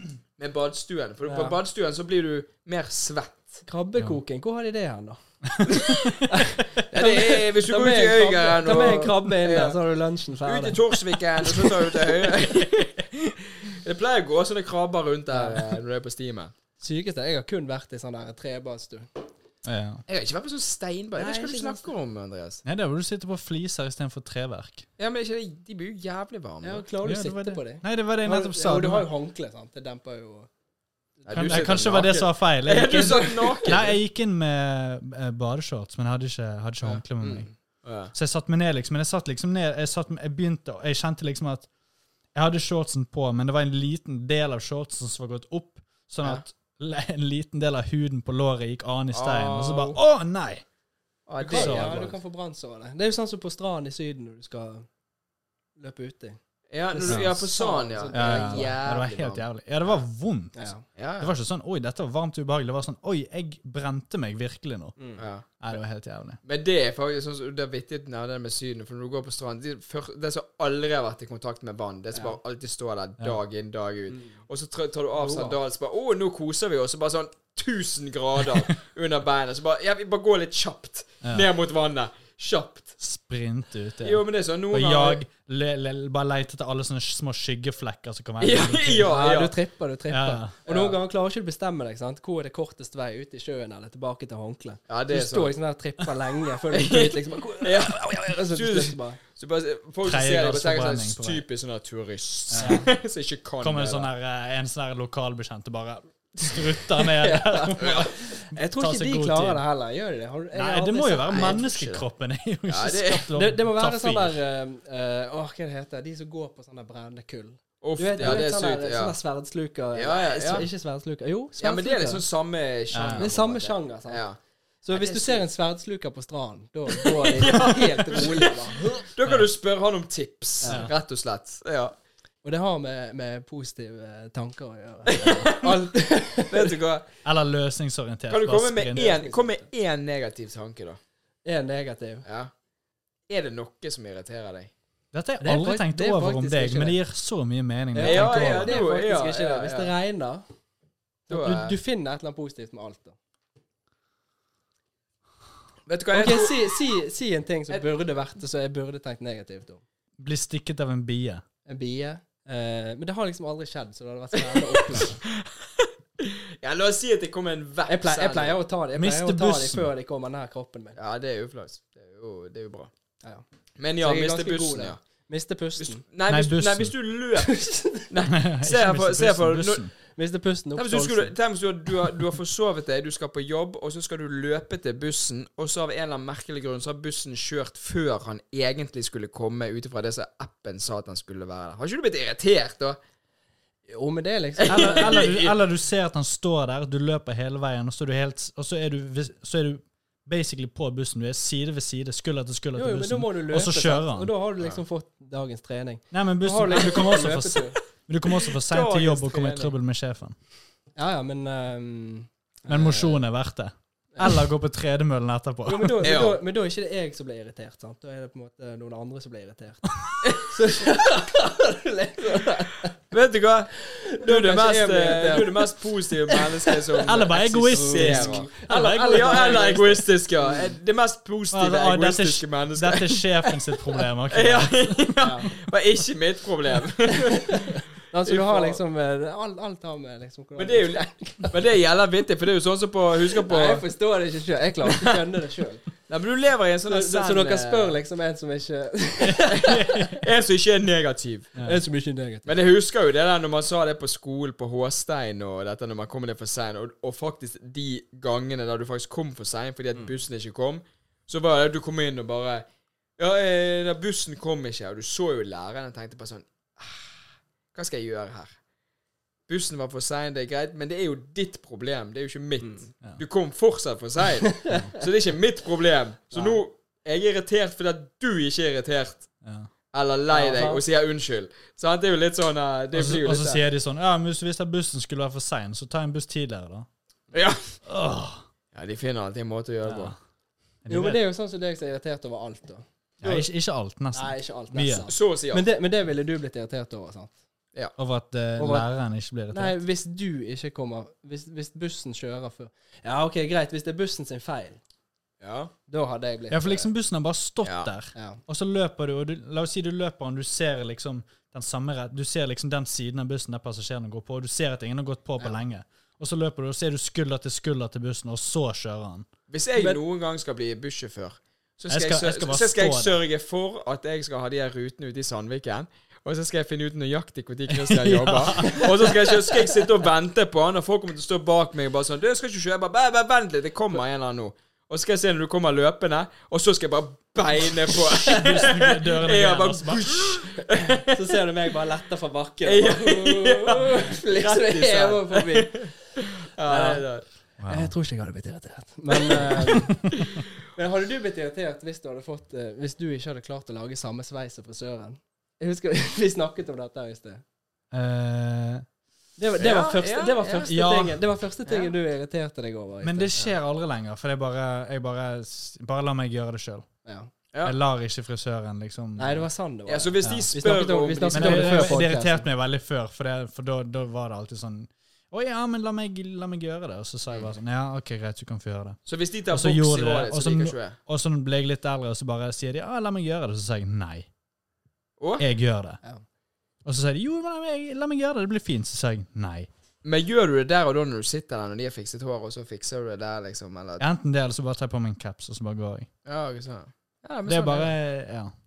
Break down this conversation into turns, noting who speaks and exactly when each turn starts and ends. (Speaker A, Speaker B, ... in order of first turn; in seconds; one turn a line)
Speaker A: 0.4-3.6
Speaker B: 1.2-1.6
Speaker B: 3.6-5.7
Speaker C: 5.5-6.3
Speaker A: 5.7-6.2
Speaker B: 6.3-10.8
Speaker A: 6.9-9.8
Speaker A: 10.4-16.5
Speaker B: 15.3-15.6
Speaker B: 16.8-19.1
Speaker C: 19.6-20.0
Speaker A: 20.1-22.6
Speaker B: 21.1-21.9
Speaker C: 22.6-24.9
Speaker A: 25.0-26.8
Speaker B: 26.6-30.5
Speaker C: 27.0-29.1
Speaker B: 31.2-31.7
Speaker A: 31.3-34.0
Speaker C: 31.4-37.5
Speaker A: 36.8-38.1
Speaker C: 38.1-41.7
Speaker C: 42.3-50.6
Speaker A: 49.1-50.0
Speaker A: 51.3-52.1
Speaker B: 51.4-54.9
Speaker C: 51.4-52.0
Speaker B: 55.8-56.4
Speaker A: 56.7-59.4
Speaker B: 56.9-58.8
Speaker C: 57.1-57.3
Speaker C: 58.1-65.0
Speaker B: 60.5-60.8
Speaker A: 61.0-61.3
Speaker A: 65.2-65.5
Speaker C: 65.6-66.4
Speaker A: 66.4-83.0
Speaker B: 75.2-75.6
Speaker C: 83.0-89.1
Speaker A: 84.0-85.2
Speaker A: 88.4-89.5
Speaker B: 89.0-99.2
Speaker C: 90.1-90.5
Speaker A: 90.7-91.0
Speaker A: 94.9-95.5
Speaker A: 96.7-104.1
Speaker C: 100.0-101.4
Speaker C: 102.5-102.9
Speaker C: 103.6-109.6
Speaker B: 107.0-111.6
Speaker A: 107.8-108.1
Speaker C: 110.5-114.4
Speaker A: 111.3-112.0
Speaker A: 112.7-113.3
Speaker B: 113.3-122.2
Speaker A: 117.8-119.2
Speaker A: 119.9-120.7
Speaker A: 121.6-124.4
Speaker C: 122.9-123.2
Speaker B: 123.2-124.2
Speaker B: 124.8-129.0
Speaker A: 124.9-125.4
Speaker A: 126.9-131.9
Speaker B: 130.6-130.9
Speaker B: 132.4-136.7
Speaker A: 135.1-135.7
Speaker A: 136.5-137.1
Speaker C: 137.2-139.2
Speaker A: 138.3-141.0
Speaker B: 139.0-139.6
Speaker B: 141.4-142.2
Speaker A: 142.2-142.5
Speaker A: 143.3-144.7
Speaker C: 145.1-148.8
Speaker B: 145.4-147.0
Speaker B: 147.9-150.4
Speaker A: 148.0-149.9
Speaker A: 151.3-151.7
Speaker B: 151.3-153.2
Speaker A: 155.9-156.7
Speaker B: 156.1-159.8
Speaker C: 160.2-161.4
Speaker B: 161.7-165.2
Speaker A: 164.5-168.6
Speaker B: 167.9-171.0
Speaker C: 168.9-169.9
Speaker A: 171.0-172.9
Speaker A: 173.8-175.0
Speaker B: 174.0-176.0
Speaker A: 175.8-179.8
Speaker C: 176.3-176.9
Speaker B: 177.4-178.1
Speaker C: 178.2-179.9
Speaker B: 180.1-181.3
Speaker A: 180.8-193.0
Speaker B: 193.9-195.2
Speaker A: 194.6-195.6
Speaker C: 194.7-204.3
Speaker B: 202.8-207.8
Speaker C: 206.1-210.3
Speaker A: 208.6-209.7
Speaker B: 210.9-213.2
Speaker C: 212.7-216.1
Speaker B: 215.7-222.9
Speaker A: 216.0-216.4
Speaker A: 220.2-220.5
Speaker A: 223.1-233.3
Speaker B: 223.8-225.8
Speaker B: 226.3-226.7
Speaker C: 227.0-229.5
Speaker B: 227.7-230.7
Speaker C: 231.5-235.0
Speaker A: 234.3-238.8
Speaker B: 235.2-235.5
Speaker B: 237.1-241.6
Speaker A: 240.6-243.8
Speaker B: 243.4-245.8
Speaker A: 246.1-248.0
Speaker B: 246.9-250.1
Speaker C: 249.2-250.2
Speaker A: 249.7-251.5
Speaker B: 251.6-252.5
Speaker A: 252.4-262.6
Speaker A: 263.2-267.2
Speaker A: 267.7-268.5
Speaker A: 269.5-279.3
Speaker B: 276.3-276.6
Speaker C: 279.4-279.7
Speaker A: 279.9-283.6
Speaker B: 280.3-280.8
Speaker C: 282.9-286.9
Speaker A: 287.3-287.8
Speaker C: 287.9-288.4
Speaker A: 288.7-290.1
Speaker C: 289.8-290.1
Speaker C: 290.8-291.2
Speaker B: 290.9-293.4
Speaker C: 293.2-295.1
Speaker B: 294.1-297.4
Speaker A: 295.1-295.7
Speaker C: 298.0-299.8
Speaker B: 298.6-298.9
Speaker B: 299.5-304.8
Speaker A: 305.4-305.7
Speaker B: 305.9-306.9
Speaker C: 306.5-319.3
Speaker A: 307.6-307.9
Speaker B: 308.1-308.4
Speaker A: 319.5-341.2
Speaker C: 321.9-323.1
Speaker C: 327.7-329.7
Speaker C: 337.9-340.4
Speaker B: 340.8-345.9
Speaker A: 342.6-347.2
Speaker B: 346.7-347.0
Speaker B: 347.6-350.2
Speaker B: 350.7-357.4
Speaker C: 357.9-358.9
Speaker B: 359.4-363.5
Speaker A: 359.6-360.7
Speaker C: 360.7-361.2
Speaker C: 363.0-366.9
Speaker B: 367.0-367.3
Speaker C: 367.6-369.4
Speaker B: 369.2-372.4
Speaker A: 369.9-372.1
Speaker C: 370.2-370.5
Speaker C: 371.3-379.0
Speaker A: 379.1-381.0
Speaker C: 379.5-384.3
Speaker A: 385.2-385.4
Speaker C: 385.4-386.0
Speaker C: 386.8-389.7
Speaker A: 390.0-394.1
Speaker C: 394.0-396.1
Speaker A: 396.2-397.9
Speaker C: 397.5-398.5